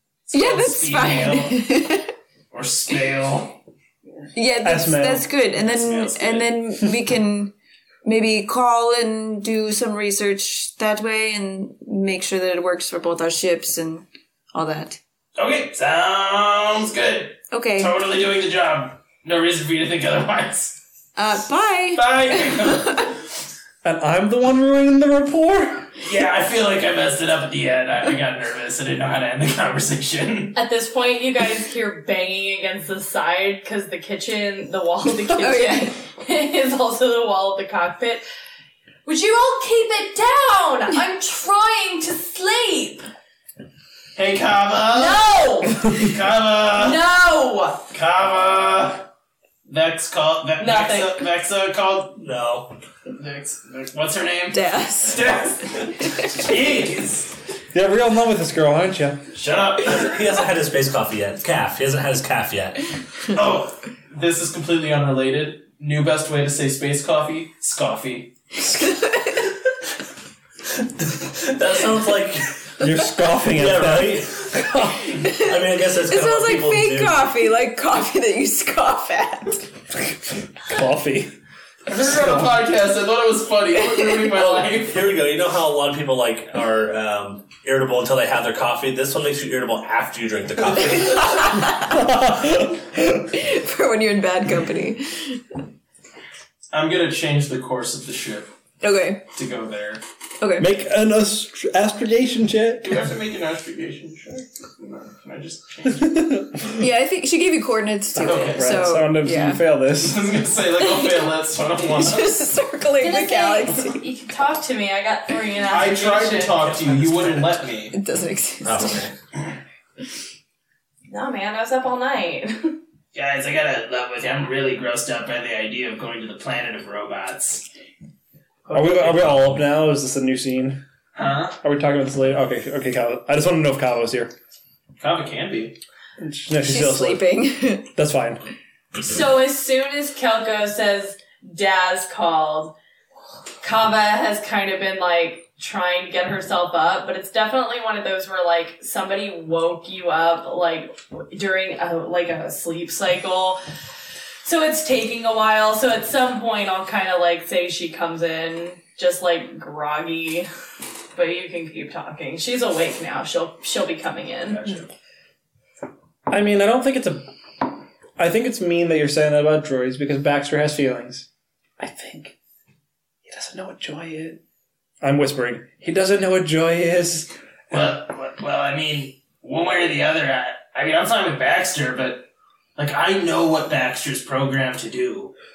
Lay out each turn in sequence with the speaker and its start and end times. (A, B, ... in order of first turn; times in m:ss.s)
0:00.3-0:01.6 A
0:00.3-0:02.1 B
0:02.5-0:03.6 A
0:04.3-0:07.5 B
0:04.6-0:05.3 C
0:05.5-0:06.6 A
0:08.0-0:15.0 B
0:15.4-0:20.8 A
0:17.5-0:18.0 B
0:21.2-0:23.1 B
0:21.9-0:23.1 A
0:23.8-0:25.9 C
0:26.0-0:30.6 A
0:30.5-0:38.2 D
0:35.3-0:36.0 B
0:39.0-0:43.1 D
0:44.2-0:45.2 A
0:44.9-0:45.9 D
0:45.8-0:47.0 A
0:46.7-0:47.8 D
0:47.9-0:49.1 A
0:49.6-0:52.2 A
0:50.6-0:51.2 D
0:52.2-0:52.7 E
0:53.2-0:57.3 A
0:54.5-0:55.2 B
0:57.7-0:59.2 C
0:59.3-1:00.2 A
0:59.9-1:02.8 E
1:03.3-1:08.3 A
1:08.7-1:09.4 B
1:11.0-1:12.8 E
1:12.8-1:15.1 C
1:13.4-1:14.5 E
1:15.1-1:19.7 B
1:15.2-1:17.3 E
1:20.1-1:21.3 C
1:21.9-1:25.1 A
1:24.3-1:31.7 E
1:31.2-1:32.0 B
1:31.7-1:33.2 C
1:33.3-1:35.4 B
1:36.7-1:38.5 A
1:38.8-1:39.2 B
1:39.3-1:40.0 A
1:40.4-1:40.7 B
1:40.6-1:43.0 C
1:42.8-1:46.4 A
1:45.8-1:46.8 C
1:46.8-1:49.6 B
1:48.1-1:50.4 C
1:48.2-1:48.7 A
1:50.0-1:52.4 A
1:51.8-1:54.0 B
1:53.0-1:56.5 D
1:55.7-1:57.9 A
1:56.5-1:57.7 E
1:57.9-1:59.1 B
1:58.6-1:59.1 E
2:01.1-2:02.8 D
2:03.1-2:07.7 A
2:08.6-2:09.5 A
2:08.7-2:10.8 C
2:11.1-2:11.6 A
2:11.6-2:14.3 C
2:15.0-2:15.8 A
2:16.2-2:17.2 C
2:16.6-2:17.9 B
2:17.9-2:18.4 C
2:19.0-2:22.7 D
2:23.6-2:33.6 D
2:34.4-2:40.5 D
2:41.1-2:44.7 D
2:44.5-2:44.9 A
2:46.3-2:51.3 C
2:51.8-2:52.4 C
2:53.2-2:54.4 C
2:55.0-2:57.3 C
2:57.7-3:05.3 A